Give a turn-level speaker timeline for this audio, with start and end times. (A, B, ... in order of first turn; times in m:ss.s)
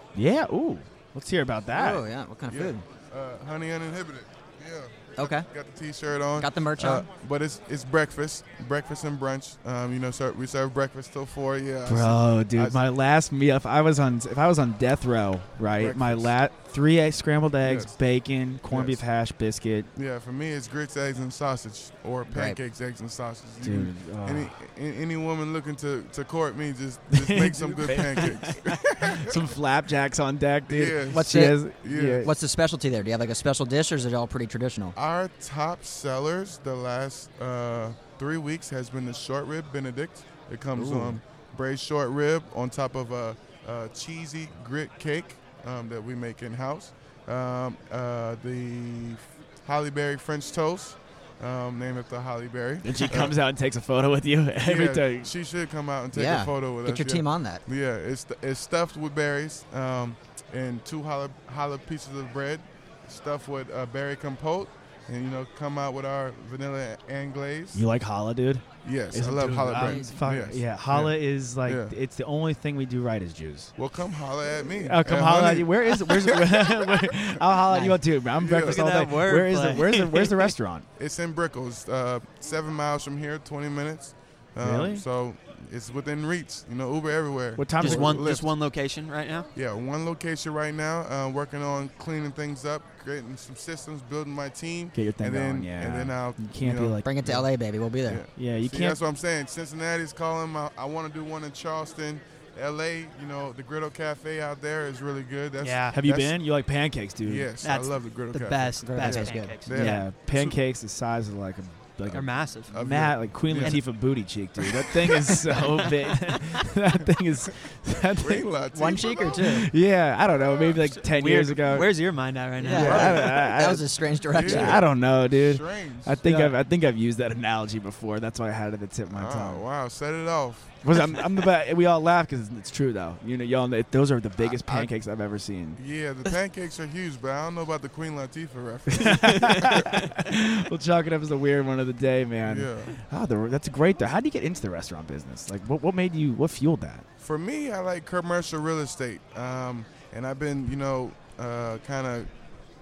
0:00.2-0:02.0 A
0:01.7-0:02.8 B
0:02.5-0:12.8 C
0:05.2-0:05.5 B
0:06.4-0:07.1 B
0:11.9-0:19.9 A
0:15.7-0:16.3 C
0:17.6-0:17.9 C
0:18.7-0:19.0 C
0:20.0-0:29.4 C
0:22.3-0:22.6 B
0:23.6-0:24.5 A
0:27.1-0:32.3 A
0:30.7-0:32.3 C
0:31.1-0:31.7 B
0:32.2-0:34.9 B
0:35.0-0:53.4 C
0:40.8-0:41.2 A
0:52.8-0:55.3 A
0:54.6-1:07.8 C
0:56.1-0:57.6 B
1:07.7-1:13.7 A
1:08.8-1:11.9 C
1:09.8-1:10.2 B
1:13.8-1:16.9 C
1:14.7-1:20.9 A
1:17.7-1:18.0 B
1:18.4-1:18.9 C
1:18.6-1:20.5 D
1:21.0-1:28.5 C
1:24.6-1:25.0 A
1:27.6-1:28.3 A
1:27.8-1:29.5 D
1:29.6-1:37.5 C
1:34.9-1:37.1 A
1:37.0-1:38.2 B
1:38.0-1:46.4 C
1:38.3-1:39.0 A
1:45.6-1:46.0 D
1:45.9-1:47.5 A
1:47.2-1:50.6 C
1:47.6-1:50.1 D
1:48.8-1:49.7 B
1:49.7-1:58.5 A
1:52.1-1:52.8 D
1:52.7-1:53.8 C
1:53.5-1:53.8 D
1:55.1-1:56.4 D
1:58.1-1:59.7 C
1:58.7-1:59.7 B
1:59.4-2:02.0 A
2:00.4-2:00.8 C
2:01.0-2:03.1 D
2:02.6-2:04.8 B
2:02.6-2:09.6 A
2:02.7-2:03.4 C
2:04.3-2:06.3 C
2:06.2-2:06.5 D
2:09.1-2:10.8 C
2:10.8-2:15.8 A
2:14.4-2:14.9 C
2:15.8-2:20.0 C
2:18.9-2:27.1 A
2:22.4-2:23.0 C
2:27.2-2:32.3 C